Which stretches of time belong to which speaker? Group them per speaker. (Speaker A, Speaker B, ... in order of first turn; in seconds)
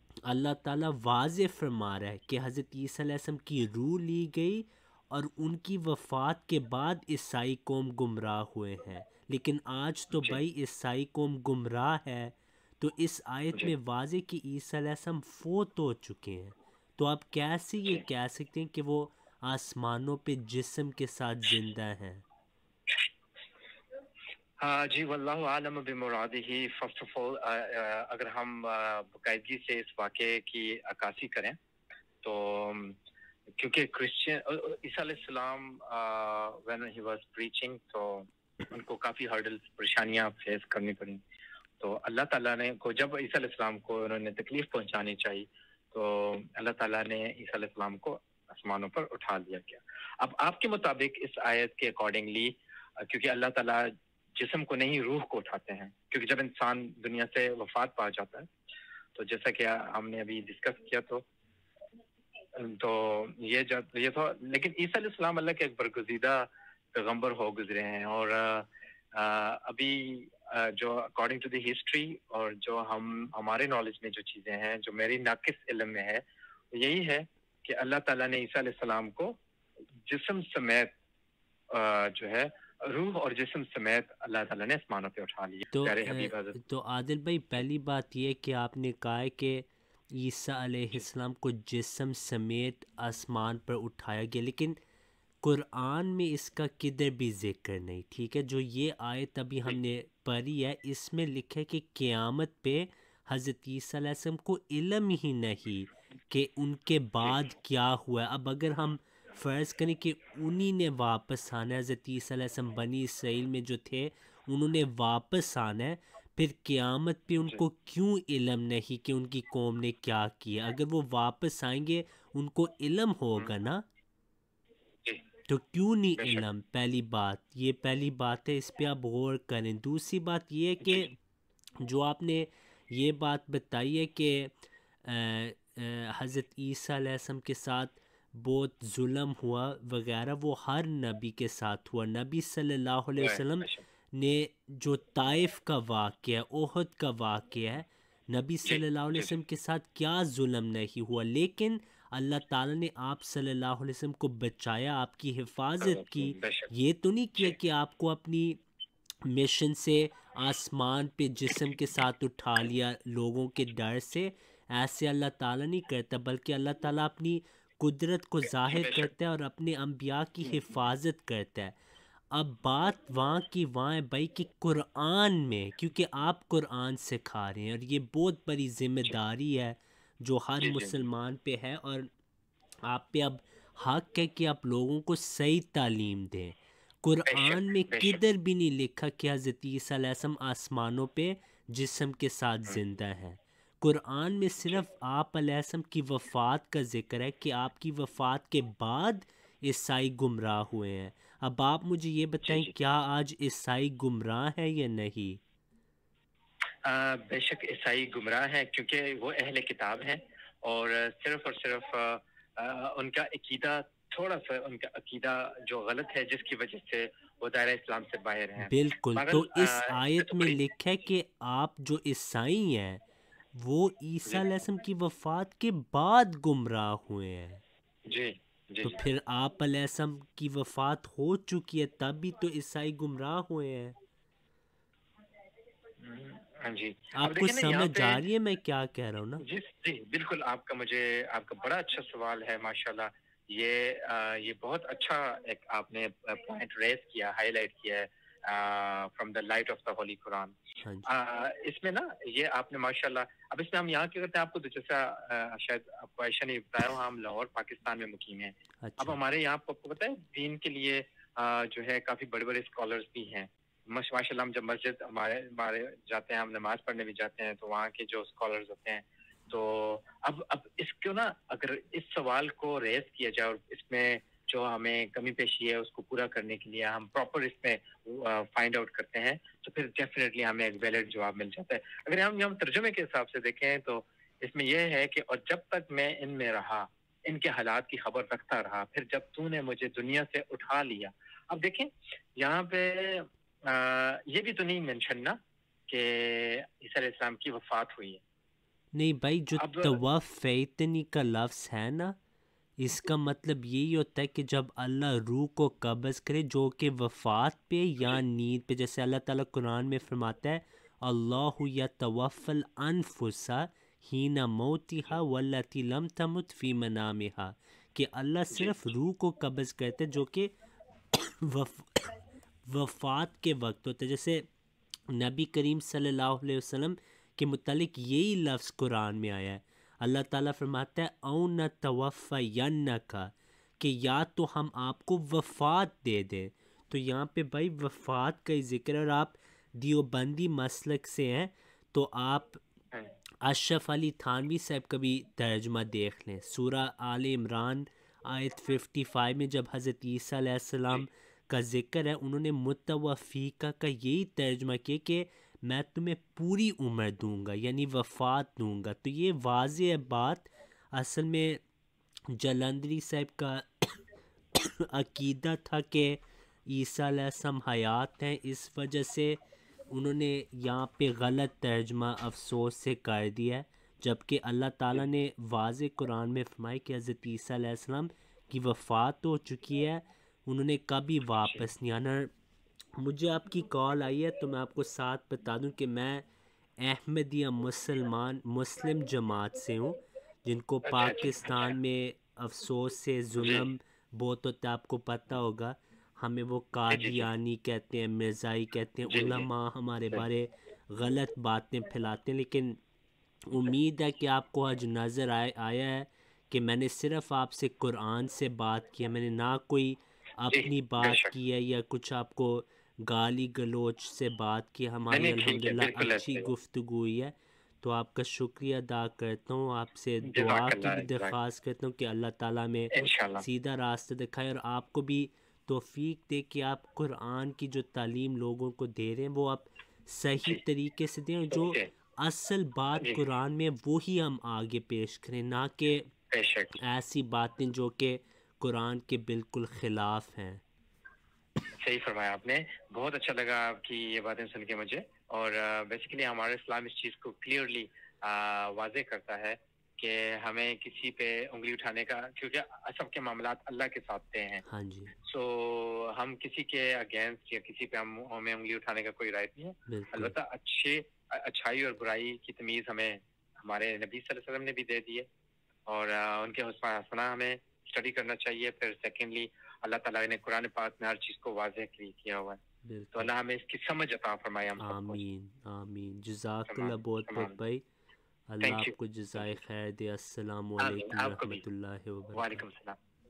Speaker A: 0.2-22.2, 85.7-94.8, 95.4-123.8, 125.5-131.2, 131.8-134.5, 135.0-158.6, 159.3-171.8, 172.3-182.1, 182.9-205.4, 218.6-223.0, 223.5-227.6, 228.8-234.0, 237.1-239.4, 258.8-259.2, 298.9-302.2, 302.8-320.5, 321.1-322.1, 322.7-324.5, 325.1-342.6, 343.4-361.6, 362.3-363.9, 364.6-369.4, 369.9-382.3, 383.0-386.3, 386.8-402.8, 403.5-436.1, 436.8-440.6, 454.7-455.1, 459.9-460.3, 472.9-473.3, 474.8-477.9, 478.5-482.6
Speaker B: 10.1-10.4, 24.6-31.6, 32.2-33.0, 33.6-41.2, 41.8-58.5, 59.1-61.2, 62.6-79.4, 80.1-80.9, 81.7-86.6, 126.2-126.4, 143.2-143.8, 148.7-149.3, 155.8-156.7, 168.6-169.1, 180.6-181.0, 187.3-188.2, 202.4-202.7, 206.8-220.6, 228.1-229.0, 236.0-238.2, 239.4-295.4, 295.9-298.2, 299.6-300.0, 318.5-318.8, 381.4-381.6, 390.9-391.7, 393.4-393.7, 396.9-397.3, 399.1-399.5, 410.5-411.3, 415.1-416.5, 420.2-421.4, 422.9-423.4, 431.5-431.9, 433.0-433.2, 436.3-436.7, 441.8-454.6, 455.2-465.3, 465.9-472.6, 473.2-475.2, 476.7-477.6, 478.6-479.5, 480.8-481.6, 482.3-483.0